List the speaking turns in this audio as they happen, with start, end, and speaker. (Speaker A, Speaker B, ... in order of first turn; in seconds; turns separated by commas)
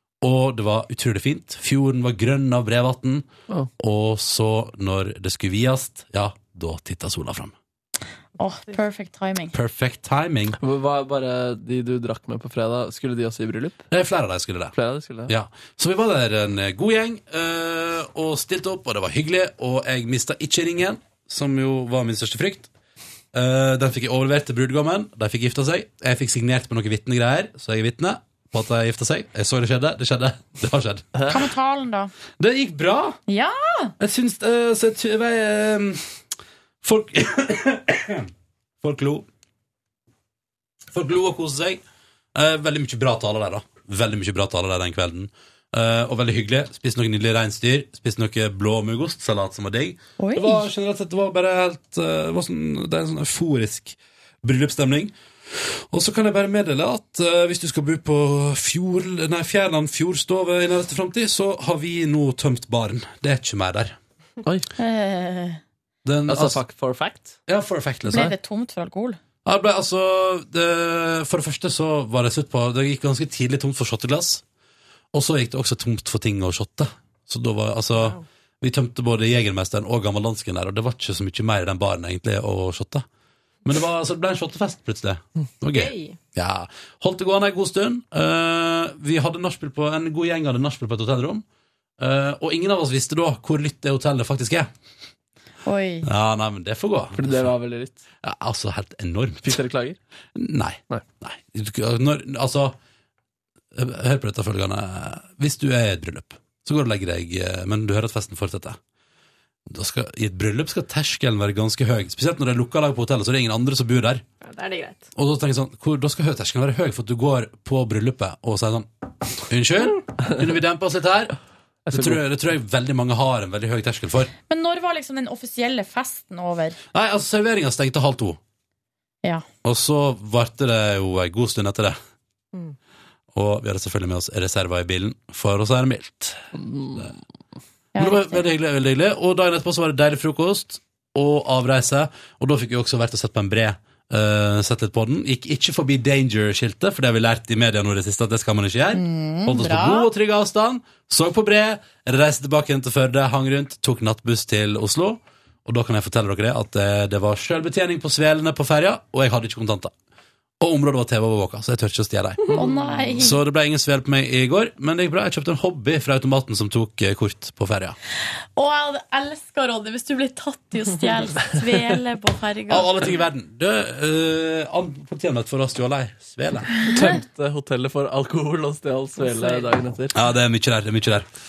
Speaker A: 0.2-3.3, Speaker A: 3.8-7.5, Speaker B: 8.4-9.5, Speaker A: 9.5-10.6, Speaker C: 10.6-13.8, Speaker A: 13.9-14.8, Speaker C: 14.7-15.3, Speaker A: 15.3-22.7, Speaker A: 23.3-31.1, Speaker C: 31.1-31.4, Speaker B: 31.3-32.1, Speaker A: 32.4-33.2, Speaker B: 33.3-33.9, Speaker A: 34.0-36.1, Speaker A: 36.8-38.3, Speaker A: 38.8-39.3, Speaker A: 40.9-41.8, Speaker A: 42.3-64.0, Speaker B: 50.2-50.7, Speaker B: 64.7-65.6, Speaker A: 66.0-66.6, Speaker C: 66.3-67.4, Speaker A: 67.5-68.3, Speaker B: 68.1-69.2, Speaker A: 69.4-74.4, Speaker A: 75.1-83.0, Speaker D: 78.0-78.2, Speaker A: 83.6-91.4, Speaker D: 85.7-86.2, Speaker A: 92.0-94.7, Speaker B: 95.6-96.1, Speaker A: 96.0-97.5, Speaker C: 97.2-98.0, Speaker A: 98.2-99.6, Speaker C: 99.4-100.0, Speaker A: 100.3-102.8, Speaker A: 103.7-108.8, Speaker A: 109.7-114.2, Speaker D: 114.4-115.1, Speaker A: 115.2-121.3, Speaker C: 121.9-122.2, Speaker A: 121.9-124.3, Speaker B: 124.5-126.8, Speaker A: 126.9-128.4, Speaker A: 129.6-132.0, Speaker A: 133.3-136.4, Speaker C: 136.5-137.2, Speaker B: 137.9-138.4, Speaker A: 138.0-159.9, Speaker B: 148.9-150.1, Speaker A: 160.6-162.5, Speaker B: 162.5-163.4, Speaker C: 162.6-163.2, Speaker A: 163.2-167.9, Speaker B: 168.6-172.9, Speaker A: 172.7-176.7, Speaker C: 176.8-180.2, Speaker D: 179.2-179.6, Speaker A: 180.1-181.3